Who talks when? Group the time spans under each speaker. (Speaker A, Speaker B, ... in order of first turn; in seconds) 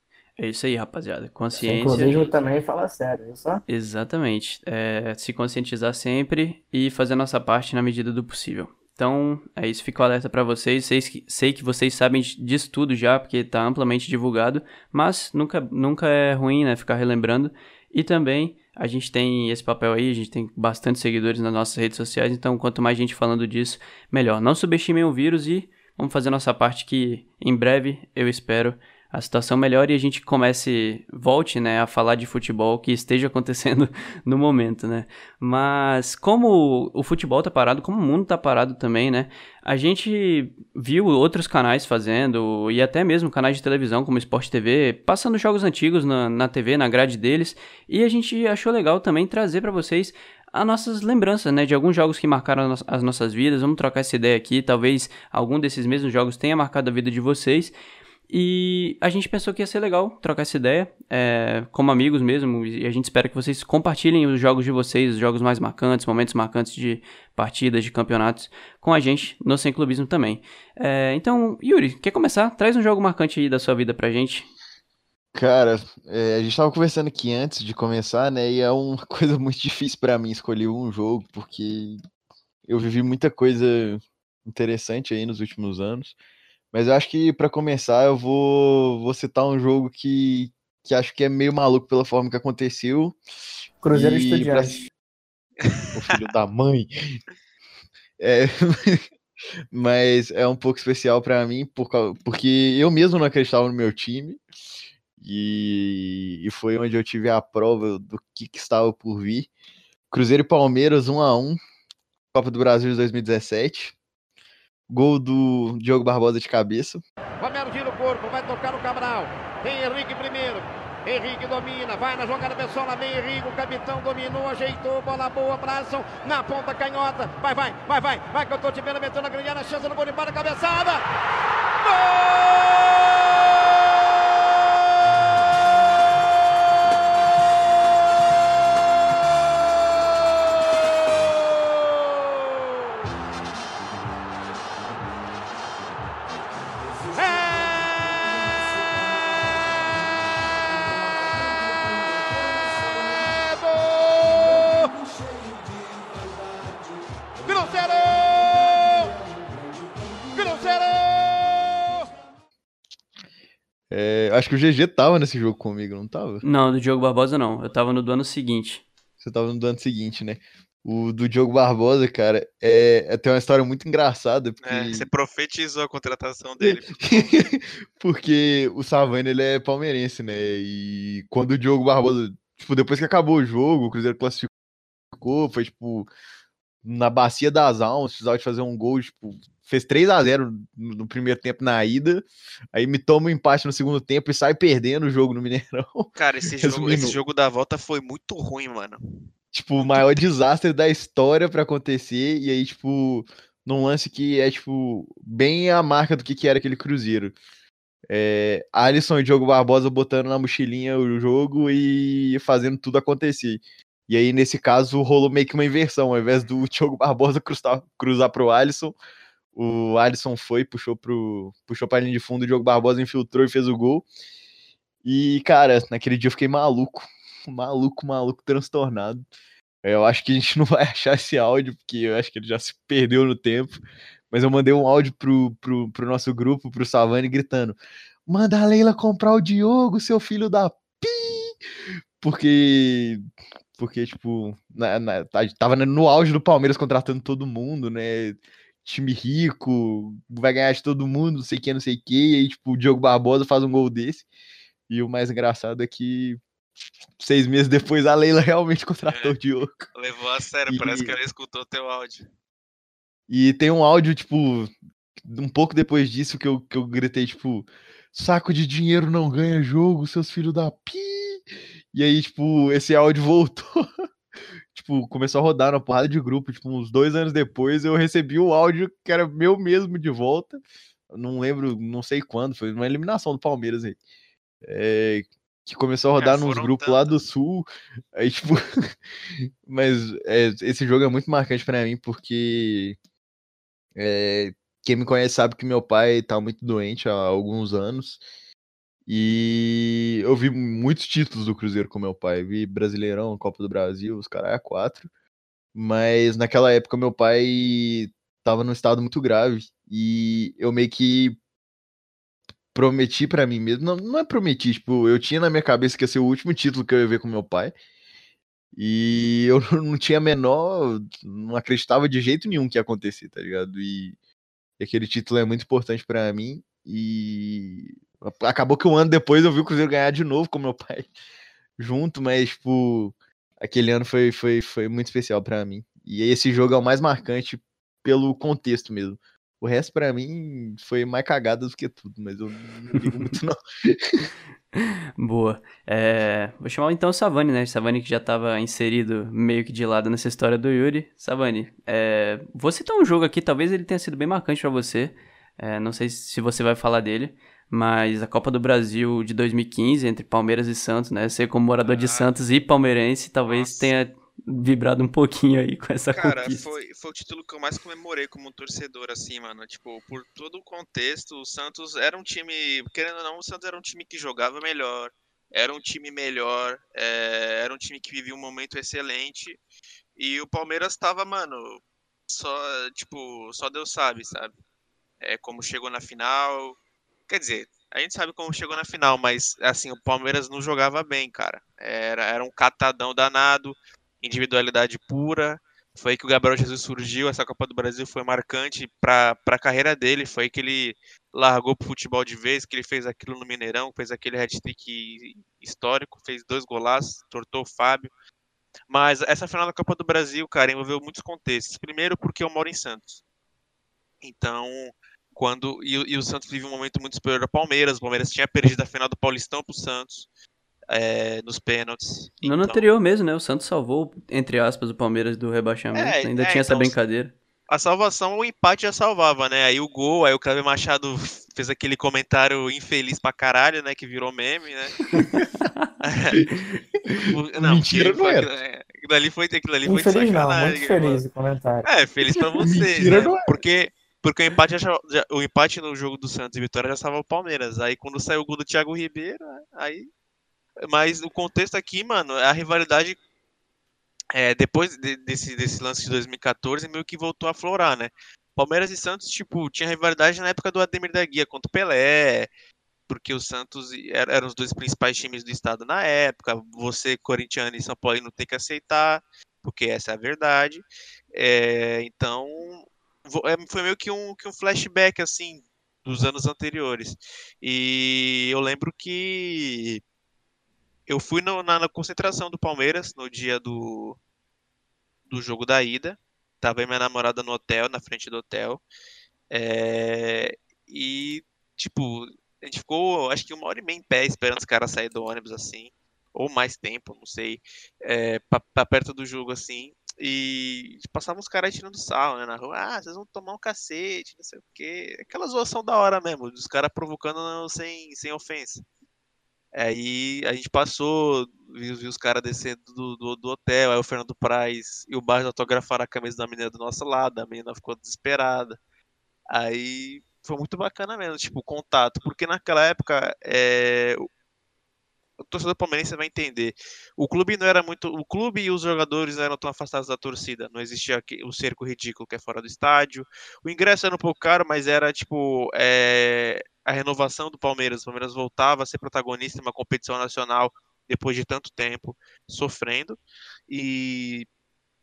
Speaker A: 0.4-2.2, 3.7-57.7, 58.3-74.5, 166.4-168.8, 344.8-366.7, 422.4-427.3
Speaker B: 1.5-3.6, 93.8-94.8, 439.9-441.9
Speaker C: 75.3-82.0, 82.7-86.2, 86.7-93.2, 93.9-94.9, 95.9-97.2, 98.2-99.1, 99.7-104.4, 105.2-109.5, 110.1-111.6, 112.3-114.0, 114.9-117.0, 163.9-166.4, 169.2-175.1, 176.6-184.5, 185.1-186.1, 186.8-197.2, 199.5-207.3, 208.1-219.0, 219.6-224.1, 225.0-229.2, 229.8-233.8, 234.3-241.6, 242.2-243.2, 243.8-254.3, 254.9-256.4, 257.2-259.9, 260.7-261.1, 263.3-273.9, 274.7-284.0, 284.6-288.6, 289.4-293.0, 294.0-298.2, 299.1-305.1, 305.8-311.4, 312.7-317.7, 318.8-324.2, 324.8-331.1, 331.8-344.3, 435.1-435.5, 437.1-438.5, 442.6-443.6
Speaker D: 95.6-96.2, 174.6-177.5, 196.2-199.0, 199.8-200.3, 259.1-259.4, 259.9-262.3, 286.2-287.2, 361.8-362.3, 363.5-363.9, 366.1-379.6, 380.2-384.5, 385.2-386.8, 387.3-408.1, 408.9-413.2, 414.2-420.3, 420.9-422.9, 425.9-427.0, 427.7-435.1, 436.0-436.4, 437.3-441.2, 441.9-450.1, 450.8-453.2, 454.3-462.5, 463.1-480.0, 481.1-484.2, 485.3-488.8, 489.5-508.8, 509.8-518.8, 519.5-524.3, 525.4-544.5
Speaker E: 117.4-131.0, 131.8-133.3, 147.1-148.3, 153.2-154.9, 157.4-159.1, 160.3-162.1